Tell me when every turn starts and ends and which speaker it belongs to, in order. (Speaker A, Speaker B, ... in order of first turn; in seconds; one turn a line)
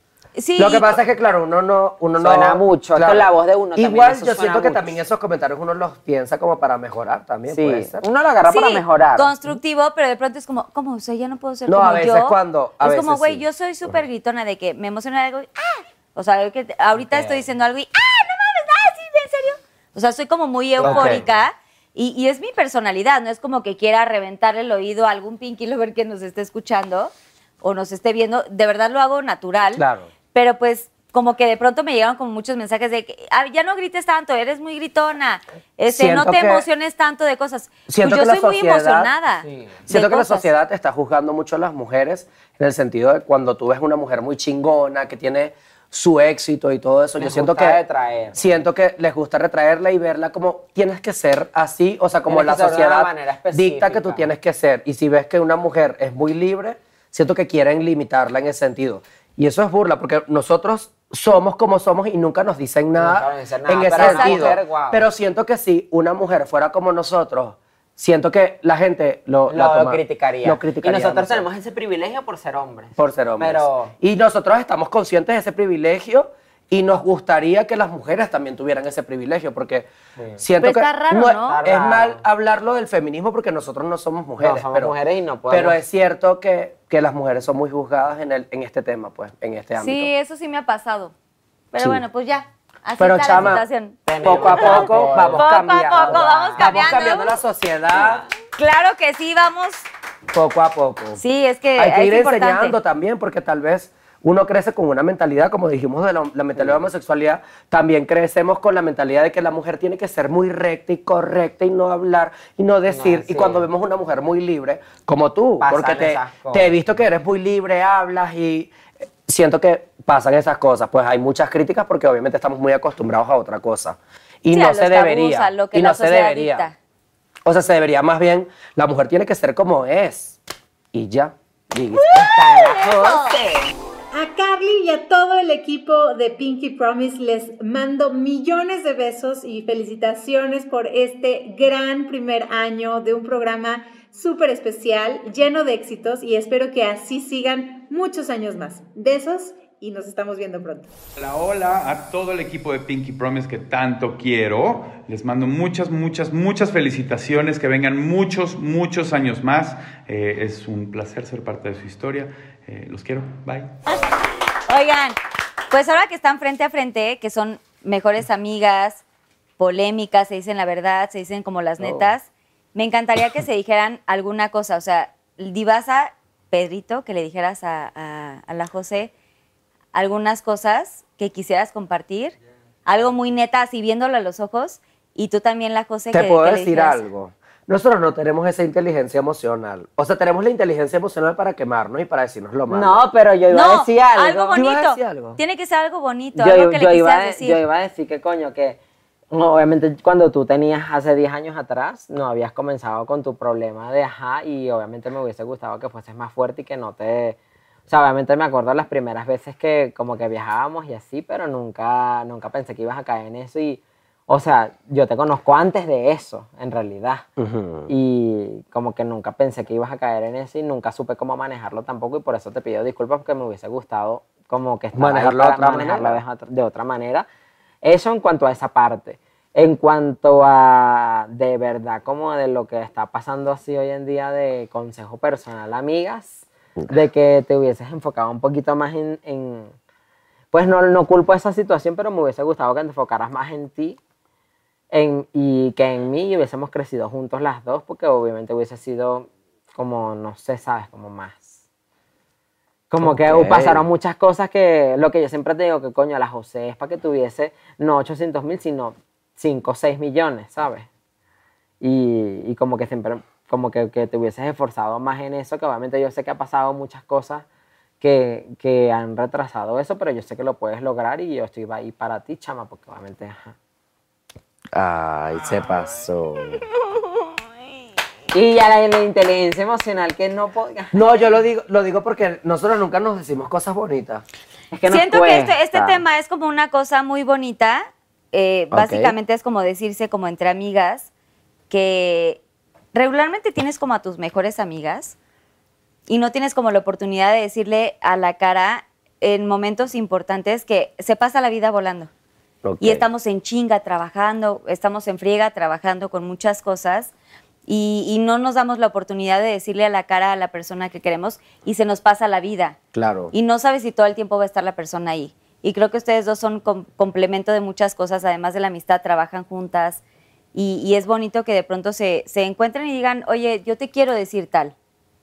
Speaker A: 0.4-1.0
Speaker B: 0.6-8.0
Speaker C: 2.2-5.0
Speaker C: 7.5-9.3
Speaker A: 8.5-29.8
Speaker B: 11.7-14.0
Speaker C: 17.0-17.4
Speaker C: 20.8-21.2
Speaker B: 20.8-21.2
Speaker B: 29.8-30.1
Speaker A: 30.3-40.5
Speaker B: 35.9-36.7
Speaker B: 37.9-39.1
Speaker C: 39.4-39.8
Speaker B: 39.9-47.8
Speaker C: 47.2-48.6
Speaker B: 48.4-71.5
Speaker C: 52.3-54.3
Speaker C: 63.0-65.1
Speaker A: 63.9-64.5
Speaker C: 69.5-73.9
Speaker B: 73.0-85.0
Speaker C: 80.2-80.4
Speaker A: 80.6-81.6
Speaker C: 81.3-82.2
Speaker C: 84.4-85.8
Speaker B: 85.5-90.1
Speaker A: 89.8-91.1
Speaker A: 91.7-97.4
Speaker B: 91.8-92.0
Speaker B: 93.0-93.6
Speaker C: 94.1-97.0
Speaker B: 94.2-98.2
Speaker C: 97.9-98.3
Speaker A: 98.6-99.8
Speaker B: 100.3-101.2
Speaker A: 101.2-102.8
Speaker B: 101.8-118.7
Speaker C: 106.6-106.8
Speaker C: 112.9-113.7
Speaker C: 115.6-116.7
Speaker B: 119.3-126.7
Speaker A: 124.5-126.8
Speaker B: 127.5-130.4
Speaker B: 130.9-132.1
Speaker A: 131.9-133.4
Speaker C: 132.1-133.7
Speaker D: 134.1-150.9
Speaker E: 151.2-163.8
Speaker A: 163.9-165.2
Speaker A: 165.7-169.0
Speaker A: 169.6-179.1
Speaker B: 171.8-172.1
Speaker A: 179.9-182.3
Speaker A: 182.9-187.0
Speaker B: 186.1-193.0
Speaker C: 192.7-194.6
Speaker A: 193.5-197.6
Speaker B: 194.5-195.4
Speaker C: 196.3-198.8
Speaker C: 199.3-217.3
Speaker B: 217.4-217.9
Speaker C: 217.9-227.3
Speaker B: 224.9-226.2
Speaker C: 227.8-239.7
Speaker C: 240.5-244.0
Speaker C: 244.9-251.6
Speaker C: 252.9-260.9
Speaker B: 253.0-253.8
Speaker C: 261.8-267.4
Speaker C: 268.0-273.6
Speaker B: 274.7-276.6
Speaker C: 278.3-281.0
Speaker B: 280.9-284.2
Speaker C: 284.7-285.9
Speaker A: 284.9-291.1
Speaker B: 288.7-289.1
Speaker A: 291.7-292.4
Speaker A: 292.9-295.2
Speaker A: 296.1-302.1
Speaker B: 302.6-303.1
Speaker A: 302.8-307.1
Speaker A: 307.7-312.8
Speaker B: 312.9-313.3
Speaker A: 313.3-320.0
Speaker A: 320.5-324.7